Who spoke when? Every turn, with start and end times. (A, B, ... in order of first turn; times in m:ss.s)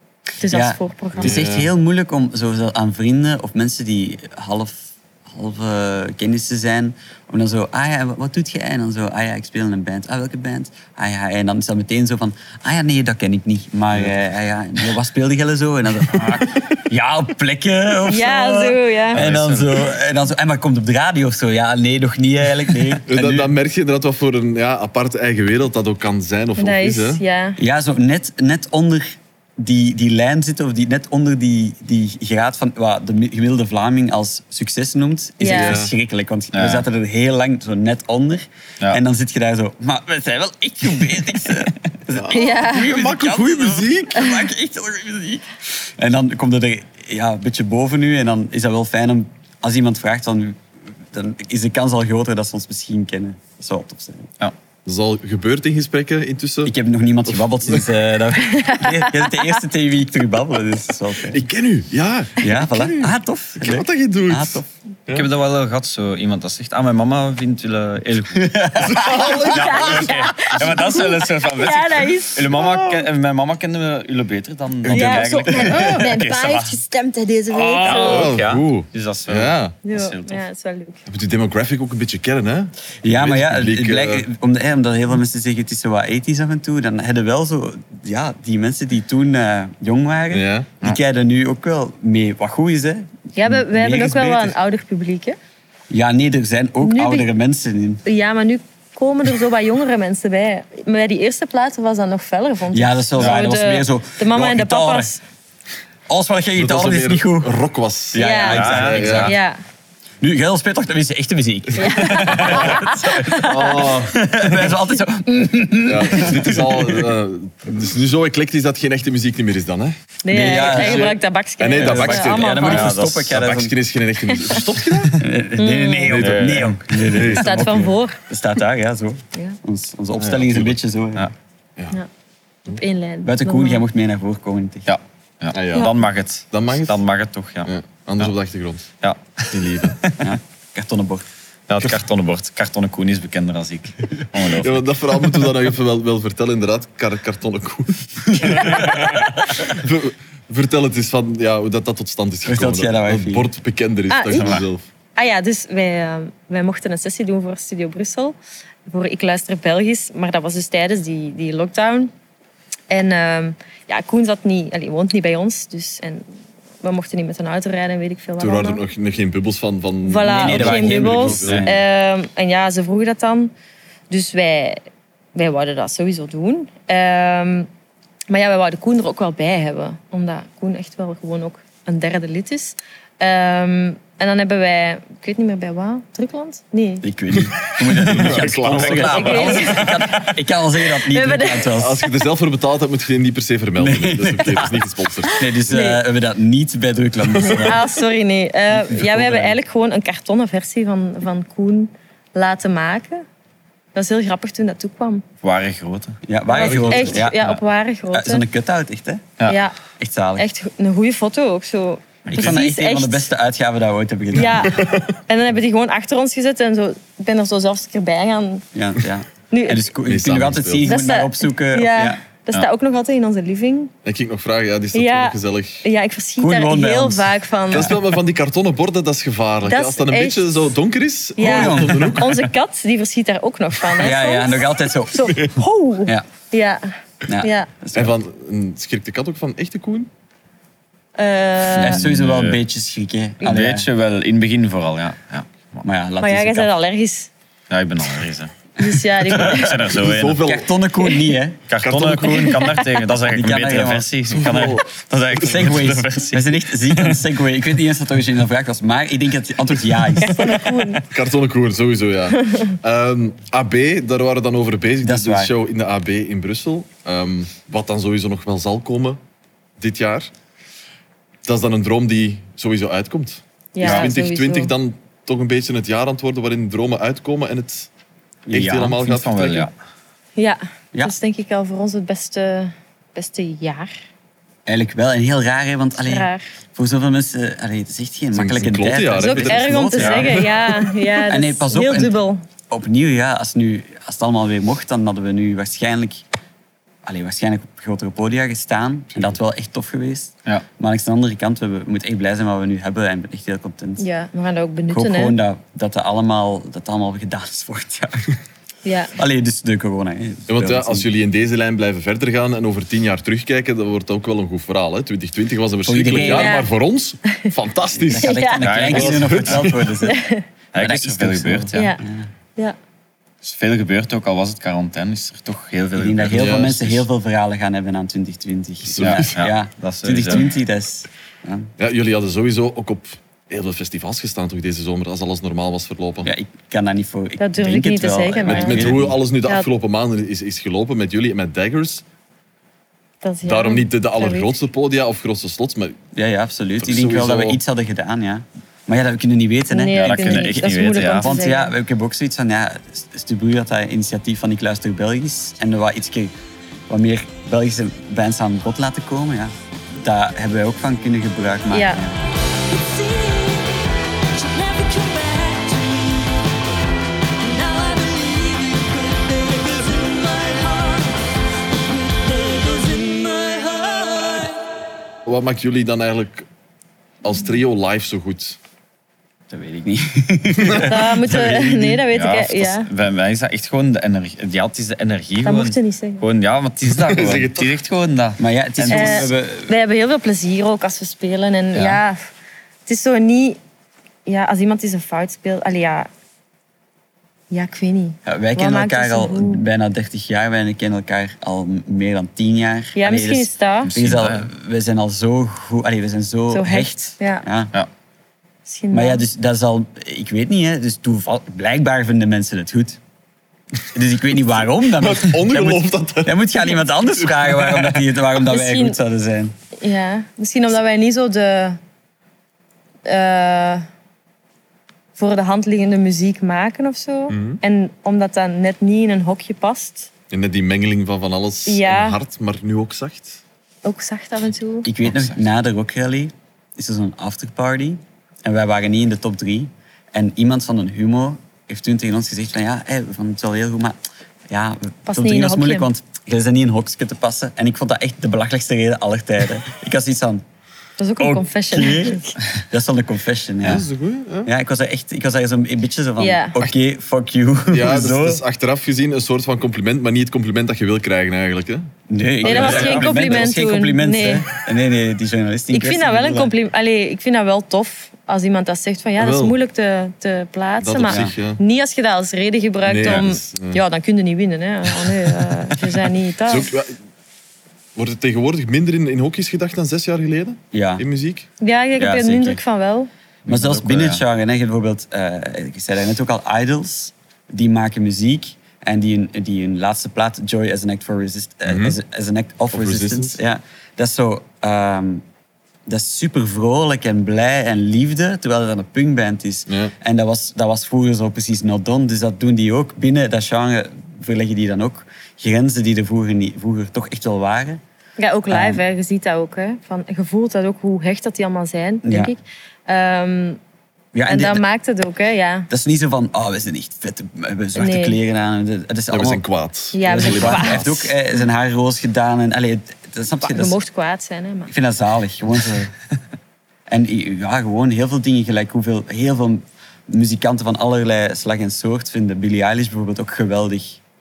0:00.4-0:01.4 A
0:00.4-0:23.5 B
0:01.1-0:01.7 C
0:16.1-0:16.5 D
0:18.1-0:19.2 A
0:19.1-0:19.9 D
0:23.0-0:27.2 C
0:26.6-0:27.6 A
0:27.6-0:50.6 B
0:35.4-0:35.8 A
0:35.4-0:35.9 C
0:36.5-0:36.8 D
0:42.1-0:44.2 C
0:42.3-0:42.9 A
0:51.1-0:54.3 B
0:54.8-0:56.7 C
0:56.6-1:01.4 B
0:57.2-0:57.9 C
0:58.5-0:59.4 A
1:01.3-1:05.3 C
1:02.4-1:04.7 B
1:05.1-1:16.8 D
1:08.3-1:09.6 B
1:08.9-1:10.0 C
1:09.0-1:12.7 A
1:12.6-1:13.0 C
1:14.9-1:18.4 A
1:15.0-1:16.1 C
1:17.5-1:20.4 D
1:17.8-1:19.7 C
1:19.8-1:21.0 A
1:21.1-1:24.2 C
1:23.0-1:34.5 B
1:30.3-1:30.7 C
1:33.4-1:35.4 A
1:35.9-1:38.0 B
1:36.8-1:37.3 A
1:38.0-1:45.2 A
1:42.7-1:45.1 B
1:43.2-1:43.6 D
1:46.1-1:47.5 B
1:46.6-1:49.4 C
1:48.1-1:49.3 B
1:48.2-1:49.6 A
1:48.5-1:49.3 D
1:50.2-1:57.0 B
1:51.8-1:53.9 A
1:52.2-1:52.6 D
1:53.3-1:54.2 C
1:55.8-2:05.2 C
2:00.2-2:02.9 A
2:00.3-2:01.1 B
2:01.8-2:03.7 B
2:02.6-2:03.5 D
2:04.3-2:04.6 A
2:05.2-2:11.3 B
2:05.6-2:06.3 A
2:06.1-2:07.9 C
2:06.2-2:06.8 D
2:07.2-2:08.2 A
2:10.2-2:10.8 C
2:12.6-2:13.8 A
2:13.2-2:14.9 B
2:14.8-2:17.7 D
2:15.5-2:16.0 C
2:16.5-2:17.0 C
2:17.6-2:18.9 C
2:19.0-2:20.3 D
2:19.5-2:20.0 C
2:20.2-2:21.2 B
2:21.7-2:24.8 D
2:24.5-2:34.8 C
2:28.4-2:28.7 B
2:32.4-2:33.5 B
2:34.1-2:34.6 A
2:34.4-2:34.6 D
2:35.2-2:38.3 A
2:38.9-2:42.1 A
2:42.9-2:46.3 A
2:46.8-2:48.8 A
2:48.4-2:51.7 C
2:50.0-2:53.5 A
2:50.3-2:51.8 B
2:54.1-2:54.8 A
2:55.3-2:57.7 A
2:58.3-3:07.0 A
3:07.0-3:12.0 B
3:07.3-3:09.6 C
3:08.0-3:10.3 D
3:09.0-3:10.2 A
3:10.9-3:12.1 A
3:11.8-3:15.4 C
3:13.8-3:14.7 B
3:15.3-3:17.8 B
3:15.6-3:16.0 A
3:17.3-3:17.6 C
3:17.5-3:23.2 A
3:19.2-3:19.5 B
3:23.9-3:25.2 A
3:25.4-3:27.6 D
3:26.2-3:27.4 B
3:26.5-3:28.4 A
3:26.6-3:27.0 C
3:28.1-3:29.2 B
3:29.4-3:29.8 A
3:30.0-3:30.5 B
3:30.4-3:33.3 A
3:32.3-3:32.6 D
3:32.3-3:34.8 B
3:34.3-3:38.6 A
3:34.7-3:35.1 C
3:38.7-3:42.2 B
3:39.5-3:39.8 A
3:40.0-3:40.9 C
3:40.8-3:43.9 A
3:44.0-3:45.8 C
3:44.9-3:47.9 A
3:46.4-3:47.9 B
3:47.7-3:52.4 C
3:49.6-3:50.6 A
3:51.4-3:56.9 A
3:51.4-3:52.2 B
3:54.0-3:55.4 B
3:57.3-3:58.2 B
3:57.4-3:57.7 A
3:57.9-4:00.1 C
4:01.2-4:02.0 A
4:01.8-4:02.6 D
4:01.8-4:03.9 B
4:03.4-4:05.8 D
4:05.8-4:06.7 B
4:06.2-4:07.3 A
4:07.7-4:08.5 D
4:08.8-4:09.9 A
4:09.2-4:10.4 D
4:09.8-4:10.7 C
4:10.4-4:11.6 B
4:11.0-4:11.3 A
4:11.7-4:17.2 D
4:11.8-4:12.5 C
4:12.2-4:13.0 A
4:13.3-4:14.1 B
4:14.3-4:15.9 C
4:15.4-4:20.5 B
4:20.2-4:21.0 A
4:21.0-4:29.2 C
4:22.4-4:22.7 A
4:25.0-4:25.5 B
4:29.8-4:30.3 C
4:31.4-4:37.9 C
4:33.7-4:34.7 A
4:33.8-4:34.1 D
4:38.5-4:38.9 B
4:38.5-4:39.7 C
4:38.7-4:39.7 D
4:40.4-4:43.9 A
4:44.7-4:50.5 B
4:46.0-4:46.4 A
4:48.3-4:50.3 C
4:49.2-4:52.4 A
4:50.0-4:50.3 D
4:51.2-4:52.2 B
4:52.7-4:56.2 B
4:57.0-5:04.0 B
5:04.0-5:05.4 A
5:04.9-5:08.3 B
5:08.8-5:09.1 A
5:09.2-5:11.0 B
5:10.5-5:19.9 C
5:15.8-5:16.6 B
5:16.1-5:16.7 A
5:18.0-5:22.3 B
5:18.2-5:18.7 A
5:18.6-5:19.7 D
5:20.0-5:20.4 A
5:20.7-5:22.0 D
5:21.7-5:22.0 A
5:23.4-5:27.0 D
5:26.0-5:31.7 B
5:26.3-5:26.7 C
5:28.8-5:29.4 C
5:29.0-5:30.5 D
5:31.8-5:36.3 C
5:36.2-5:39.2 B
5:37.4-5:38.9 A
5:38.4-5:42.0 C
5:43.2-5:44.5 A
5:43.4-5:46.0 C
5:46.1-5:56.3 B
5:46.8-5:47.6 C
5:49.7-5:51.7 A
5:50.0-5:51.3 D
5:56.9-6:02.2 B
6:01.7-6:02.0 A
6:02.7-6:06.4 A
6:07.4-6:11.2 A
6:11.9-6:14.5 A
6:15.2-6:16.5 C
6:17.2-6:18.6 C
6:19.5-6:22.0 B
6:20.6-6:20.9 C
6:20.8-6:22.9 A
6:22.1-6:29.3 D
6:25.4-6:26.2 A
6:26.9-6:27.7 C
6:28.4-6:29.7 B
6:28.9-6:32.2 A
6:31.7-6:32.0 D
6:32.8-6:33.6 A
6:34.2-6:36.1 A
6:37.5-6:39.7 A
6:38.2-6:47.7 B
6:43.0-6:44.0 A
6:43.8-6:44.4 D
6:46.5-6:47.4 A
6:48.6-6:49.2 A
6:48.9-6:53.0 B
6:53.9-6:59.5 B
6:55.0-6:57.9 C
6:58.4-6:59.0 A
6:59.8-7:01.8 A
7:03.0-7:03.8 A
7:05.2-7:10.1 A
7:07.3-7:07.6 C
7:10.3-7:13.4 C
7:11.7-7:12.2 A
7:13.8-7:14.9 A
7:14.8-7:24.0 B
7:15.0-7:15.4 D
7:24.5-7:30.4 B
7:25.1-7:25.9 A
7:31.0-7:32.4 A
7:31.2-7:33.8 B
7:33.6-7:34.5 C
7:34.4-7:38.4 B
7:36.2-7:36.6 A
7:37.7-7:41.9 C
7:42.1-7:46.5 B
7:42.4-7:43.2 C
7:42.4-7:44.5 A
7:42.4-7:43.2 D
7:45.7-7:56.7 A
7:49.2-7:49.6 C
7:50.8-7:51.6 C
7:52.8-7:53.8 C
7:56.5-7:57.0 C
7:58.0-8:01.5 C
8:00.7-8:01.0 B
8:01.6-8:03.1 A
8:02.0-8:02.6 B
8:03.4-8:15.2 B
8:03.5-8:04.2 D
8:11.6-8:12.0 C
8:12.7-8:13.4 C
8:15.8-8:27.8 B
8:19.7-8:19.9 C
8:28.2-8:33.6 A
8:28.5-8:28.8 B
8:32.0-8:32.3 B
8:34.1-8:34.6 B
8:34.3-8:35.7 A
8:35.7-8:39.4 B
8:37.8-8:38.2 A
8:39.1-8:40.9 C
8:39.9-8:41.1 A
8:40.0-8:43.8 B
8:43.4-8:44.7 A
8:44.7-8:45.9 B
8:46.9-8:54.0 B